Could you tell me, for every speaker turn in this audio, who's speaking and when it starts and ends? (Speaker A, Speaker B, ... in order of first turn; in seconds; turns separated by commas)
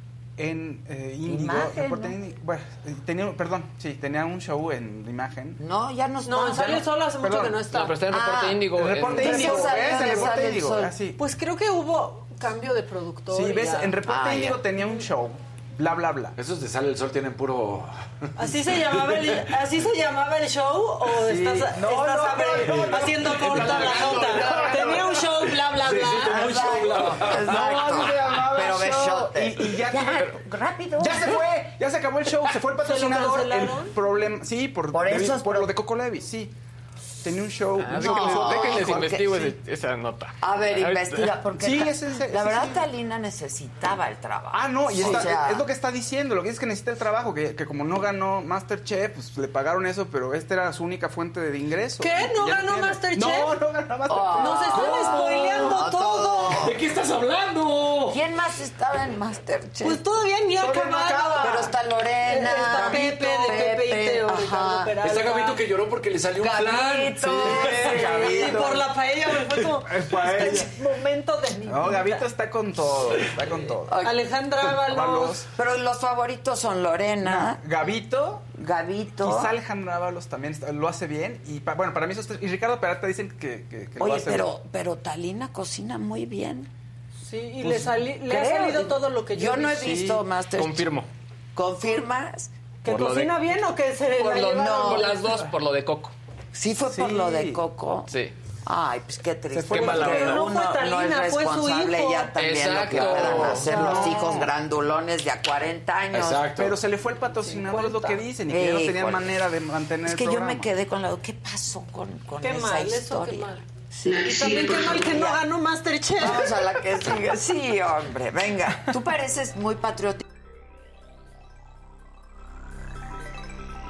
Speaker A: 0.4-5.6, Speaker B: 1.2-2.2, Speaker B: 5.6-6.9, Speaker C: 6.2-8.0, Speaker A: 7.2-7.6, Speaker D: 7.7-9.6, Speaker B: 8.1-10.9, Speaker A: 8.7-11.2, Speaker C: 9.2-9.8, Speaker C: 11.2-14.0, Speaker A: 13.3-16.3, Speaker B: 14.0-14.7, Speaker E: 16.4-19.4, Speaker C: 18.4-26.8, Speaker A: 21.1-25.3, Speaker E: 22.7-28.3, Speaker B: 24.2-25.0, Speaker B: 26.2-31.5, Speaker A: 27.1-30.3, Speaker D: 30.0-30.3, Speaker A: 31.0-36.5, Speaker C: 32.8-34.0, Speaker B: 34.9-35.7, Speaker A: 37.2-39.1, Speaker D: 37.8-41.3, Speaker B: 37.8-39.6, Speaker B: 40.4-45.7, Speaker A: 41.5-42.9, Speaker A: 44.5-55.2, Speaker C: 52.0-53.6, Speaker B: 54.1-56.8, Speaker C: 54.4-56.6, Speaker E: 54.8-55.2, Speaker E: 56.6-58.2, Speaker B: 58.0-60.0, Speaker C: 59.8-61.6, Speaker B: 60.6-65.0, Speaker A: 60.6-61.7, Speaker C: 62.2-65.6, Speaker A: 62.7-63.0, Speaker E: 65.0-67.9, Speaker B: 66.4-68.8, Speaker A: 67.2-68.9, Speaker C: 67.4-72.3, Speaker A: 69.8-70.7, Speaker A: 71.7-74.0, Speaker B: 73.9-74.2, Speaker C: 74.0-75.4, Speaker A: 74.9-75.5, Speaker B: 75.5-77.6, Speaker A: 77.2-78.5, Speaker B: 78.5-79.5, Speaker A: 79.2-84.5, Speaker B: 84.0-86.7, Speaker C: 87.2-90.0, Speaker B: 87.6-91.0, Speaker A: 89.8-90.2, Speaker D: 90.5-91.1, Speaker B: 91.5-92.5, Speaker C: 92.8-95.4, Speaker D: 92.9-93.4, Speaker D: 94.1-96.1, Speaker B: 94.4-95.2, Speaker B: 96.5-106.5, Speaker A: 96.9-97.6, Speaker D: 98.1-98.3, Speaker A: 99.5-100.4, Speaker D: 99.7-100.4, Speaker C: 100.1-102.3, Speaker D: 102.3-104.1, Speaker A: 103.0-104.5, Speaker C: 103.5-104.4, Speaker E: 106.1-106.8, Speaker A: 106.6-110.7, Speaker C: 107.4-108.3, Speaker B: 108.5-109.4, Speaker B: 110.0-115.4, Speaker C: 112.4-116.6, Speaker B: 116.1-120.2